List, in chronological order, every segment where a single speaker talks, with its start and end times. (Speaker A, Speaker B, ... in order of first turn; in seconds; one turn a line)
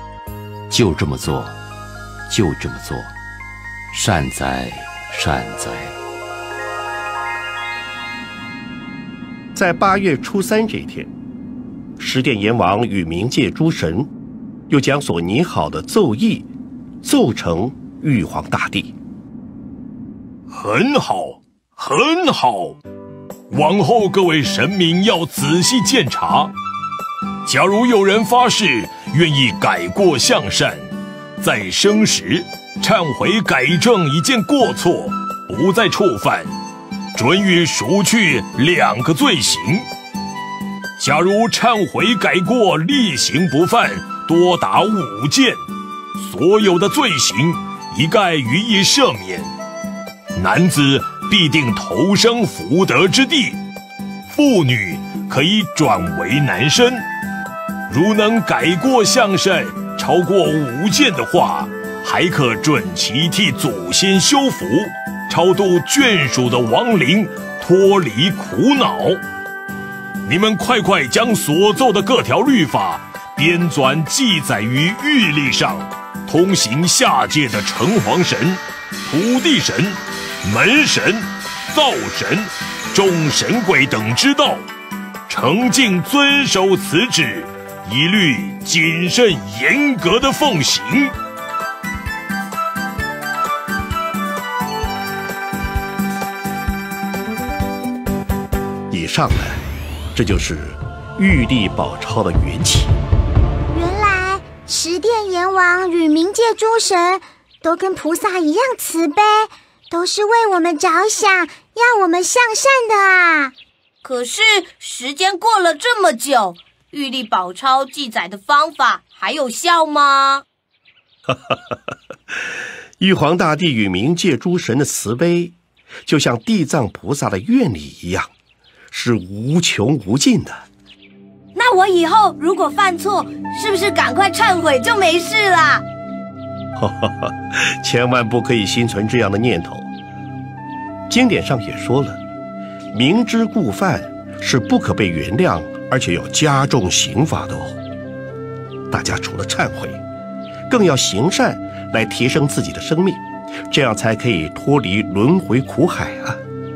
Speaker A: 0.7-1.6
Speaker A: 2.3-3.1
Speaker A: 3.9-6.0
Speaker B: 9.6-11.1
Speaker B: 12.0-14.1
Speaker B: 14.7-16.5
Speaker B: 17.0-18.9
Speaker C: 20.5-22.8
Speaker C: 23.5-26.5
Speaker C: 27.4-36.5
Speaker C: 37.1-39.9
Speaker C: 41.0-45.6
Speaker C: 46.2-49.5
Speaker C: 50.4-53.6
Speaker C: 54.3-57.1
Speaker C: 57.9-69.2
Speaker C: 70.3-84.6
Speaker C: 85.3-91.1
Speaker B: 98.9-99.6
Speaker B: 100.1-103.0
Speaker D: 103.7-113.5
Speaker E: 114.0-120.5
Speaker B: 121.3-121.8
Speaker B: 123.0-128.3
Speaker B: 128.9-130.6
Speaker E: 131.6-135.8
Speaker B: 136.8-139.9
Speaker B: 141.1-142.2
Speaker B: 142.9-147.8
Speaker B: 148.9-150.0
Speaker B: 150.7-156.4